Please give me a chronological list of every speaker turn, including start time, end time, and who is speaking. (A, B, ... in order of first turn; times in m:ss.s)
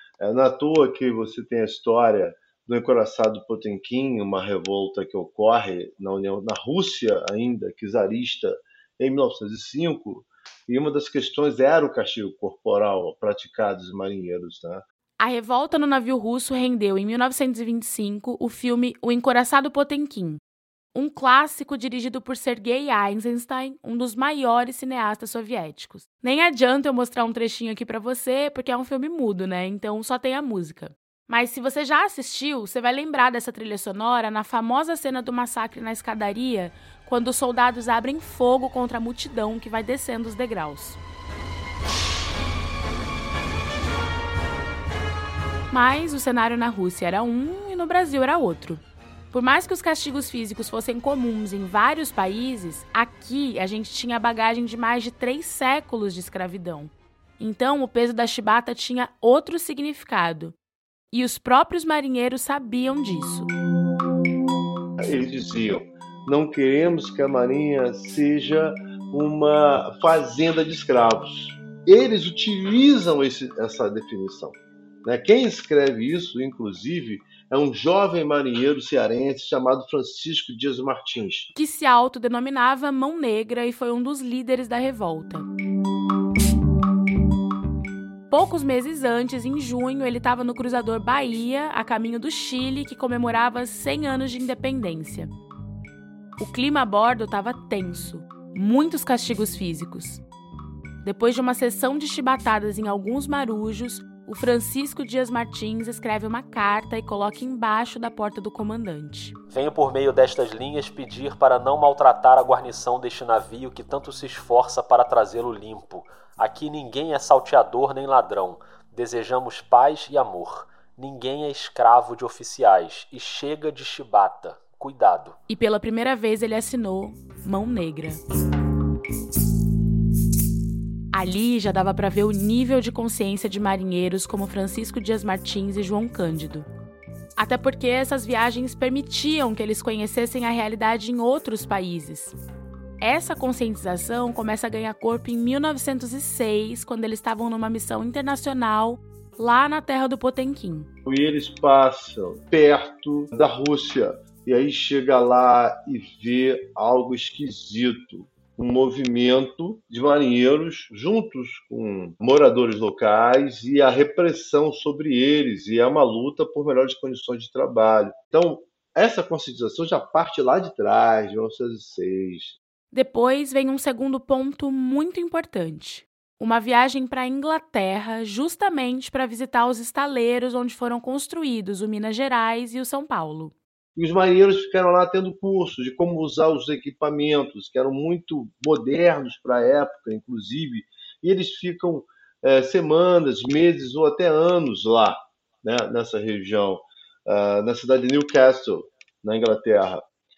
0:00.2-0:14.8 A
0:15.2-0:20.4 B
0:20.9-0:41.0 B
0:45.7-0:48.8 B
0:49.3-1:00.6 B
1:01.1-1:03.5 B
1:05.0-1:21.5 A
1:21.6-1:25.5 B
1:28.3-1:35.3 B
1:36.4-1:40.2 B
1:41.0-1:49.4 B
1:49.5-2:05.4 C
2:05.5-2:08.2 B
2:11.1-2:16.7 B
2:17.4-2:22.4 B
2:23.0-2:30.9 B
2:31.1-2:52.6 A
2:52.9-3:03.6 B
3:04.0-3:20.0 A